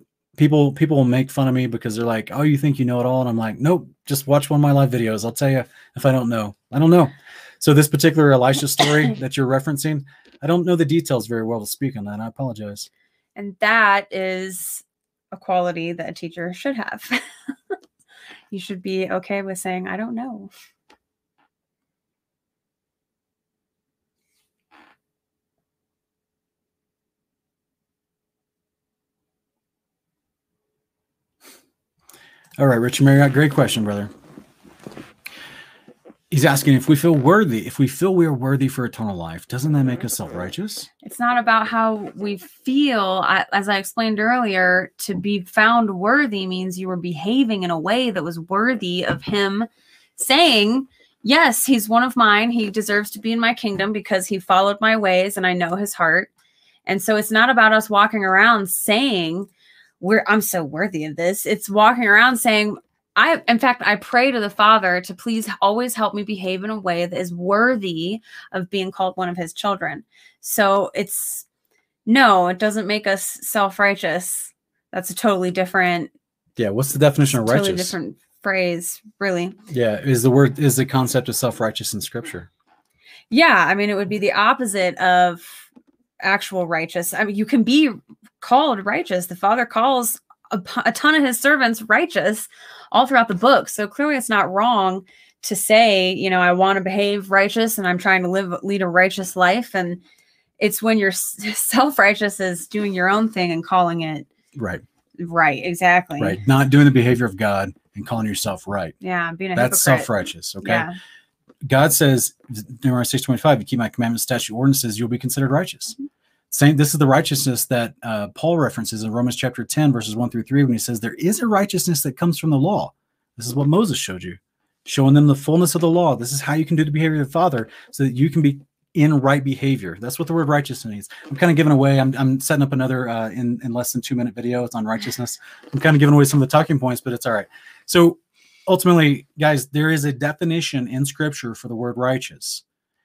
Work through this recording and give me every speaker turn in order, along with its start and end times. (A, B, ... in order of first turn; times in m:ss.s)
0:00.4-0:12.9 A
0:13.4-0:17.2 B
0:18.5-0:20.5 B
0:32.6-0:34.1 A
0:36.3-0:40.9 A
0:41.0-0:56.3 B
0:56.9-0:59.5 B
1:00.0-1:11.4 B
1:12.1-1:16.1 B
1:16.6-1:18.0 A
1:17.4-1:19.6 B
1:19.7-1:22.5 A
1:23.3-1:25.7 B
1:26.2-1:40.0 B
1:40.6-1:44.3 B
1:44.6-1:44.8 A
1:45.2-1:46.4 B
1:46.2-1:49.0 A
1:49.0-1:50.1 B
1:49.6-1:50.9 A
1:50.6-1:50.9 B
1:51.7-1:56.0 A
1:56.5-2:22.6 A